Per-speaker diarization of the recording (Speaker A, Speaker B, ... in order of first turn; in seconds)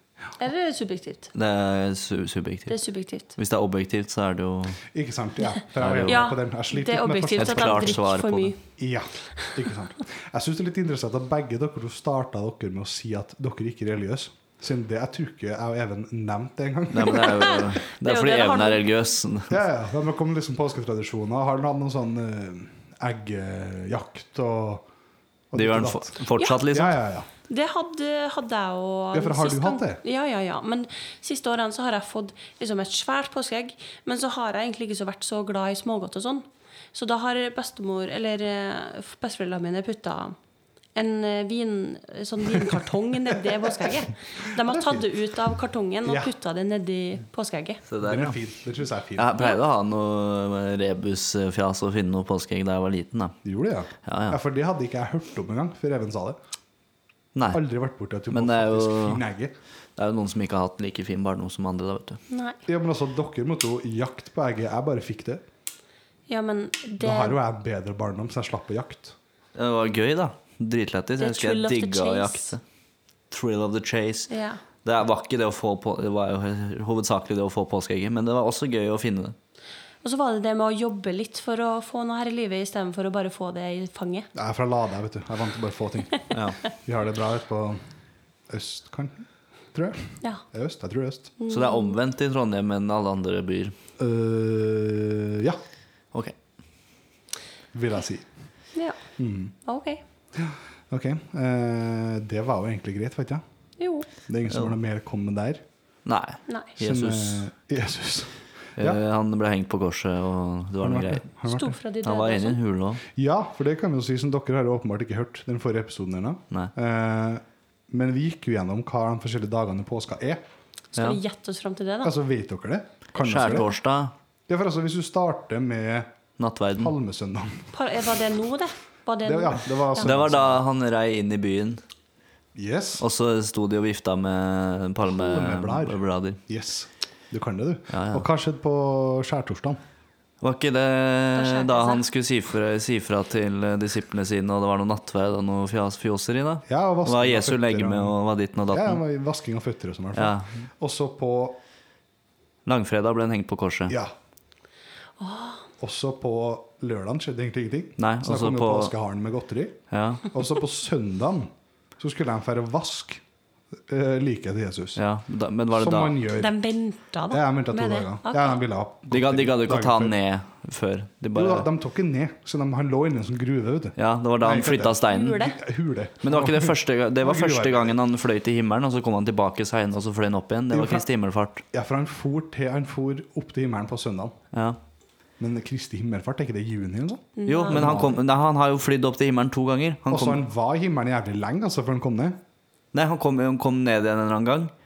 Speaker A: 0.4-1.3, 2.7-3.3, 6.1-8.6, 17.2-18.8, 26.4-26.6, 27.5-40.4, 40.9-47.8, 62.3-62.6, 66.3-67.4, 71.2-72.5, 74.3-74.6, 80.0-84.3, 91.4-92.0, 99.6-100.0, 103.8-104.1, 106.5-106.7, 111.4-112.6, 120.9-122.1, 127.7-130.1, 141.3-142.0, 155.2-155.6, 166.4-168.6, 175.1-175.6, 187.4-187.9
Speaker B: 1.3-2.8, 3.3-4.8, 5.8-6.3, 7.4-8.5, 16.9-19.5, 25.5-26.9, 47.9-48.4, 49.1-53.4, 54.0-54.4, 57.3-57.6, 58.3-59.2, 60.0-62.2, 69.5-72.6, 73.3-74.3, 74.8-79.3, 86.3-86.6, 91.5-93.7, 106.0-107.5, 108.8-111.3, 112.0-113.0, 123.2-124.1, 126.4-126.9, 130.0-131.8, 133.0-136.4, 137.9-138.2, 140.4-149.0, 150.1-150.6, 152.7-153.9, 158.0-158.9, 159.9-160.3, 164.9-166.2, 169.1-171.7, 174.0-175.5, 176.2-181.6, 187.4-190.4, 192.9-194.7
Speaker C: 4.9-8.0, 8.8-17.6, 19.5-24.8, 25.5-27.3, 29.1-30.0, 43.6-43.9, 44.5-45.0, 46.0-46.3, 48.0-49.3, 53.4-56.4, 57.5-59.5, 62.6-65.4, 67.0-69.2, 84.3-87.8, 88.5-91.3, 94.0-95.6, 97.7-98.3, 99.2-99.5, 100.3-103.4, 104.3-105.6, 106.8-109.0, 110.8-111.7, 113.1-120.4, 122.0-123.7, 124.5-126.1, 126.7-127.7, 129.2-130.6, 132.5-133.0, 135.1-139.8, 146.7-148.2, 148.7-151.6, 153.9-154.1, 155.8-163.2, 163.9-165.0, 165.7-166.5, 167.3-170.1, 171.3-177.9, 180.7-181.0, 181.7-184.3, 185.4-188.2, 190.1-192.4